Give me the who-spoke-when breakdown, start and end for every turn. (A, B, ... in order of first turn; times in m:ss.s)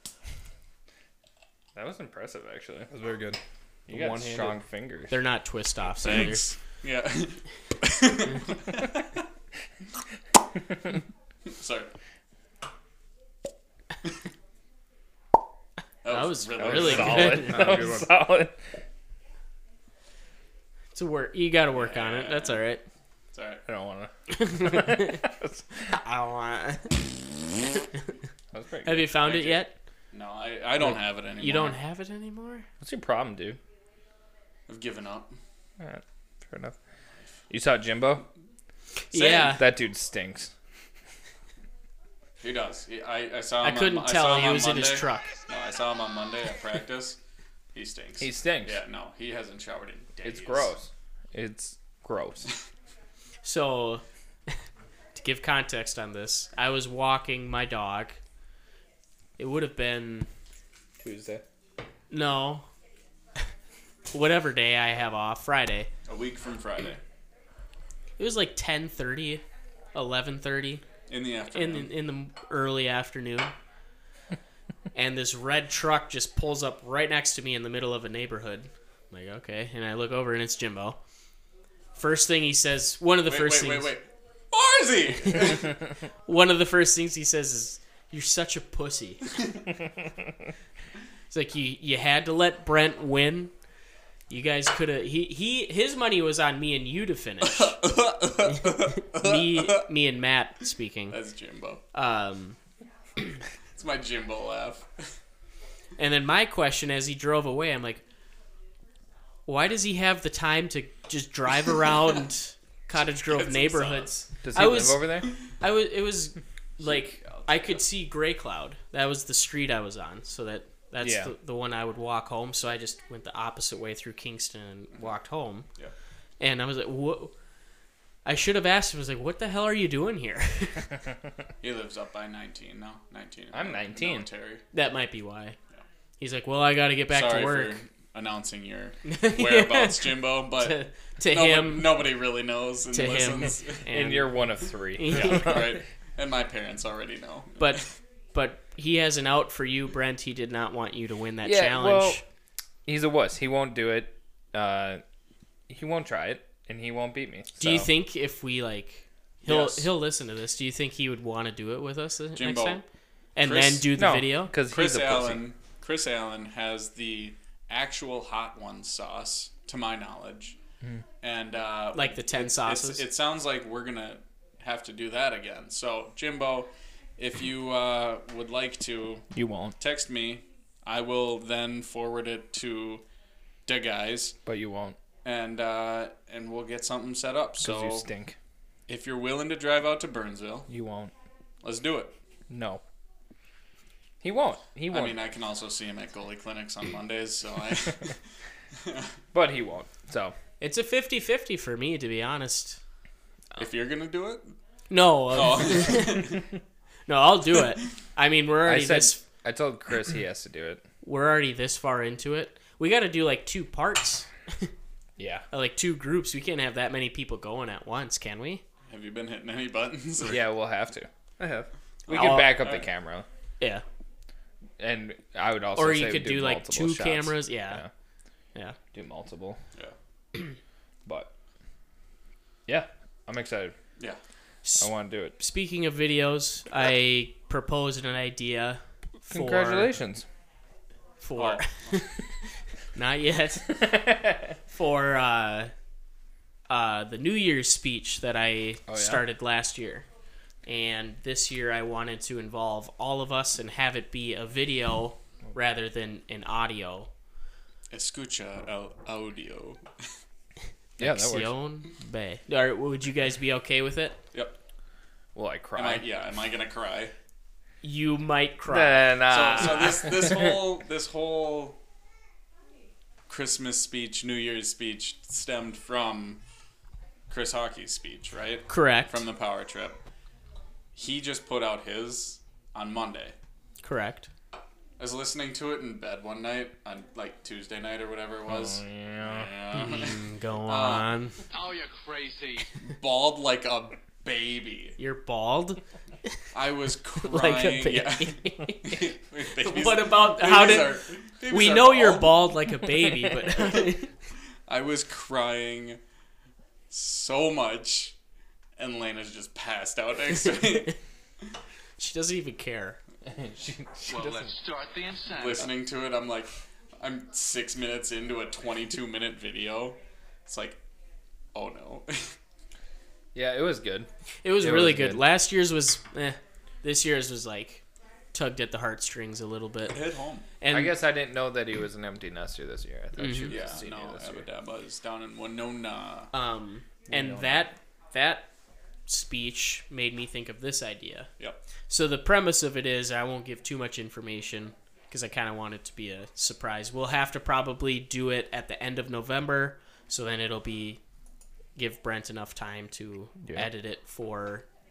0:01.7-0:02.9 A
0:02.9-0:04.6 B
0:03.9-0:05.1 A
0:05.1-0:06.5 C
0:06.0-0:09.1 D
0:11.5-0:11.9 D
0:16.0-0:17.5 D
0:16.1-0:17.9 C
0:16.6-0:18.6 A
0:17.1-0:18.1 B
0:20.9-0:22.8 C
0:21.7-0:22.6 D
0:23.3-0:23.6 D
0:23.6-0:25.9 A
0:24.3-0:25.2 C
0:25.9-0:27.0 C
0:28.5-0:29.1 A
0:28.8-0:29.7 C
0:29.2-0:31.8 D
0:31.4-0:32.6 C
0:32.8-0:33.6 A
0:34.7-0:35.3 D
0:35.8-0:36.8 A
0:37.5-0:38.2 A
0:39.1-0:39.6 C
0:39.2-0:39.5 D
0:39.2-0:40.5 A
0:42.4-0:47.2 D
0:43.6-0:45.3 C
0:47.7-0:50.7 D
0:48.2-0:48.8 A
0:50.2-0:52.5 A
0:53.4-0:54.6 C
0:55.1-0:58.2 C
0:59.4-1:00.3 C
1:01.0-1:01.4 A
1:02.1-1:02.6 C
1:04.1-1:05.9 C
1:06.0-1:07.0 D
1:08.2-1:09.4 C
1:09.9-1:10.8 C
1:11.1-1:11.9 D
1:11.5-1:13.5 C
1:14.9-1:21.0 C
1:21.9-1:23.9 C
1:23.3-1:25.7 D
1:26.2-1:29.3 C
1:31.3-1:33.5 C
1:34.3-1:37.8 C
1:37.4-1:39.8 D
1:38.4-1:41.2 C
1:41.1-1:41.8 D
1:41.9-1:42.6 C
1:43.8-1:45.1 D
1:46.0-1:48.0 C
1:49.5-2:05.7 C
1:53.2-1:54.1 D
1:54.4-1:55.3 A
1:56.8-1:57.8 D
2:01.0-2:01.3 A
2:06.4-2:07.3 C
2:08.2-2:10.9 C
2:11.6-2:14.6 D
2:13.5-2:14.3 A
2:14.7-2:15.6 C
2:16.2-2:17.8 C
2:17.1-2:23.8 D
2:19.0-2:22.0 C
2:22.9-2:24.4 C
2:23.9-2:25.8 A
2:24.9-2:25.6 C
2:25.1-2:27.8 D
2:27.6-2:32.2 C
2:31.4-2:32.2 A
2:32.8-2:35.0 A
2:35.7-2:37.9 A
2:37.6-2:42.8 C
2:39.4-2:39.9 D
2:42.4-2:42.8 D
2:43.4-2:44.5 C
2:43.4-2:43.9 D
2:43.9-2:45.4 A
2:44.7-2:50.6 D
2:51.2-2:59.2 D
2:51.9-2:53.0 C
2:59.3-2:59.8 A
2:59.8-3:03.0 D
3:03.6-3:04.4 D
3:04.4-3:05.0 A
3:05.2-3:08.1 D
3:07.6-3:08.4 A
3:08.9-3:10.7 D
3:10.7-3:11.1 A
3:11.6-3:12.2 D
3:12.5-3:12.8 A
3:14.2-3:15.2 A
3:14.9-3:18.2 D
3:19.3-3:20.4 A
3:20.6-3:22.8 C
3:23.6-3:24.5 D
3:24.9-3:26.3 C
3:25.3-3:26.4 D
3:27.1-3:29.2 C
3:28.6-3:30.8 A
3:31.0-3:34.7 C
3:35.2-3:35.4 A
3:35.5-3:38.6 C
3:38.9-3:40.4 D
3:40.3-3:41.1 A
3:41.4-3:41.7 B
3:42.1-3:42.9 D
3:42.1-3:43.2 A
3:42.1-3:42.6 C
3:44.8-3:47.9 A
3:45.7-3:47.8 C
3:48.9-3:49.6 A
3:51.0-3:51.3 A
3:52.7-3:53.7 A
3:54.6-3:59.9 C
3:54.8-3:55.4 A
3:59.3-4:00.2 A
4:01.2-4:02.2 C
4:01.4-4:01.9 D
4:02.9-4:03.9 C
4:03.7-4:04.5 A
4:04.7-4:05.7 C
4:06.7-4:10.0 C
4:08.9-4:09.2 A
4:10.6-4:17.1 C
4:17.9-4:19.8 D
4:21.0-4:21.5 A
4:21.0-4:24.2 C
4:25.3-4:26.0 A
4:25.7-4:27.1 D
4:27.8-4:29.2 C
4:28.7-4:30.6 A
4:29.3-4:31.8 D
4:33.3-4:36.4 D
4:37.3-4:40.0 D
4:38.7-4:39.2 C
4:40.9-4:43.3 D
4:43.8-4:44.3 C
4:45.0-4:51.1 D
4:48.5-4:49.5 A
4:49.7-4:51.4 C
4:51.5-4:52.7 E
4:52.8-4:55.0 D
4:55.0-4:56.3 C
4:56.5-5:02.5 D
4:57.2-5:04.1 C
5:03.6-5:03.9 D
5:04.7-5:06.0 D
5:06.9-5:08.1 D
5:08.8-5:10.9 D
5:12.0-5:13.0 C
5:13.2-5:14.5 A
5:14.1-5:15.7 E
5:15.4-5:20.8 D
5:21.5-5:22.4 D
5:23.3-5:24.1 A
5:24.4-5:27.8 C
5:24.6-5:25.2 A
5:28.3-5:30.0 C
5:29.9-5:30.4 D
5:30.6-5:31.0 C
5:30.7-5:34.4 A
5:33.2-5:33.5 C
5:33.5-5:36.3 D
5:36.3-5:38.5 C
5:37.1-5:37.7 A
5:39.1-5:41.3 C
5:41.9-5:51.0 C
5:51.8-5:54.7 C